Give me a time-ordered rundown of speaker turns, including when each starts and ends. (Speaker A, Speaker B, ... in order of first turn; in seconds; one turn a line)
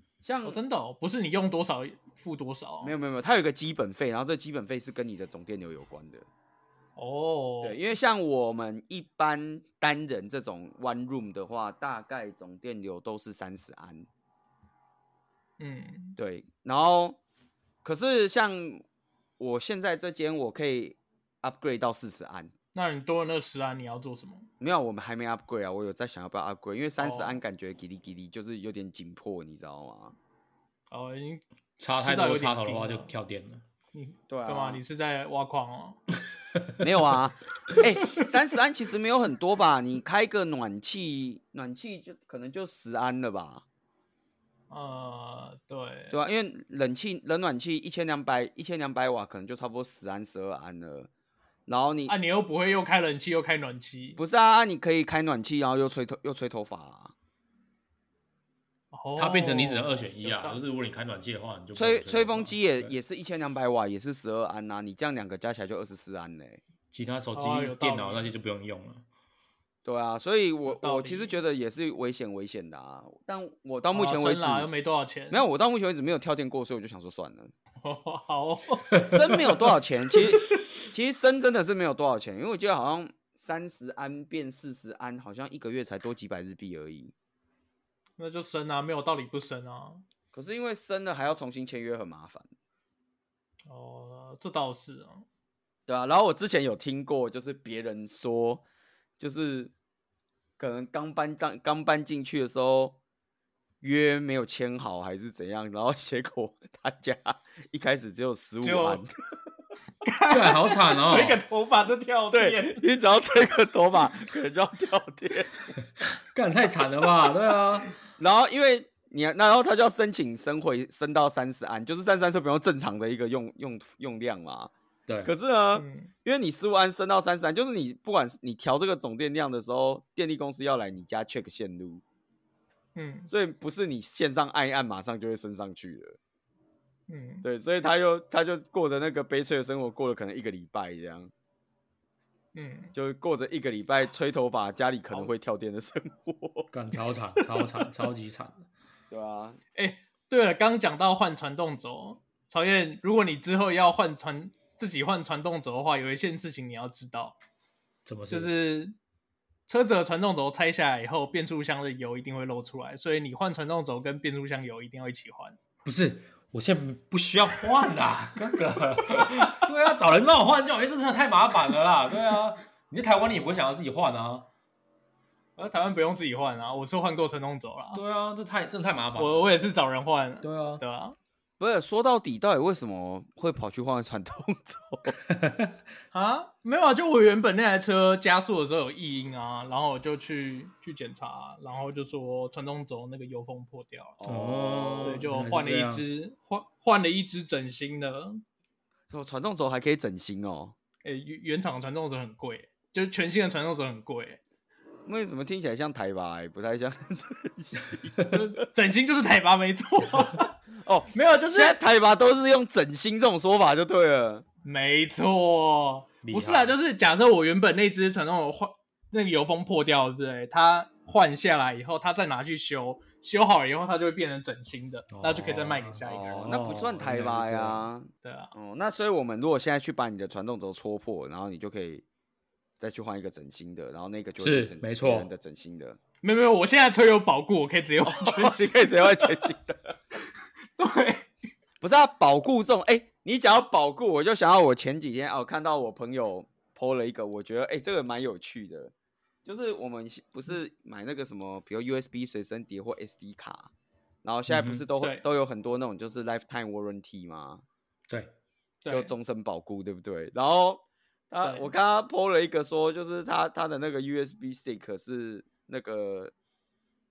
Speaker A: 0.2-0.6
Speaker B: 0.4-2.9
Speaker A: 2.8-6.3
Speaker B: 7.0-7.8
Speaker A: 7.6-14.1
Speaker B: 15.6-16.2
Speaker A: 16.2-17.2
Speaker A: 17.8-18.9
Speaker A: 19.4-22.5
Speaker B: 22.7-24.5
Speaker A: 24.6-30.2
Speaker B: 27.0-27.4
Speaker B: 30.9-31.4
Speaker C: 31.8-33.6
Speaker B: 31.9-33.1
Speaker B: 33.9-36.0
Speaker A: 34.3-34.8
Speaker A: 36.8-43.6
Speaker B: 44.7-46.2
Speaker A: 46.1-51.1
Speaker A: 51.7-52.2
Speaker B: 52.1-54.2
Speaker A: 54.2-57.1
Speaker B: 58.9-60.6
Speaker C: 59.2-62.9
Speaker A: 61.8-66.6
Speaker C: 66.9-69.0
Speaker B: 67.3-68.3
Speaker A: 69.8-74.7
Speaker B: 70.7-71.3
Speaker B: 73.9-75.4
Speaker A: 75.3-77.5
Speaker B: 77.8-80.5
Speaker A: 79.0-87.1
Speaker B: 88.2-90.0
Speaker A: 90.3-92.5
Speaker B: 93.7-95.2
Speaker A: 95.9-98.6
Speaker A: 99.2-99.7
Speaker A: 100.6-103.0
Speaker A: 103.8-109.1
Speaker B: 108.6-109.0
Speaker B: 110.0-112.8
Speaker C: 110.3-111.4
Speaker A: 112.3-115.5
Speaker C: 116.2-117.9
Speaker A: 118.2-124.7
Speaker C: 125.1-125.3
Speaker A: 125.2-132.0
Speaker B: 125.8-126.1
Speaker B: 132.9-133.3
Speaker A: 133.3-136.2
Speaker B: 137.1-137.4
Speaker A: 137.4-141.3
Speaker B: 142.6-142.9
Speaker A: 142.9-146.7
Speaker C: 146.7-148.7
Speaker A: 149.1-149.6
Speaker B: 149.8-157.4
Speaker C: 158.1-158.5
Speaker B: 158.3-159.0
Speaker B: 159.7-165.6
Speaker C: 165.8-174.5
Speaker B: 175.6-178.0
Speaker C: 177.9-179.6
Speaker B: 179.2-181.2
Speaker C: 180.4-180.8
Speaker A: 181.6-185.2
Speaker C: 185.3-185.8
Speaker B: 186.1-194.2
Speaker A: 194.2-195.2
Speaker C: 194.2-196.1
Speaker B: 195.0-198.4
Speaker A: 199.1-200.8
Speaker B: 201.0-204.4
Speaker A: 205.1-208.2
Speaker B: 208.3-210.6
Speaker A: 210.8-214.4
Speaker B: 211.1-211.8
Speaker B: 214.7-226.6
Speaker C: 216.2-216.8
Speaker C: 225.1-227.8
Speaker A: 226.3-232.1
Speaker B: 228.2-228.5
Speaker A: 232.8-236.0
Speaker C: 234.4-235.3
Speaker B: 236.2-239.3
Speaker A: 238.1-240.0
Speaker B: 240.8-241.3
Speaker A: 241.8-248.9
Speaker A: 249.4-253.7
Speaker A: 254.2-257.6
Speaker C: 254.5-254.9
Speaker B: 258.8-259.1
Speaker A: 258.9-266.3
Speaker B: 261.4-261.7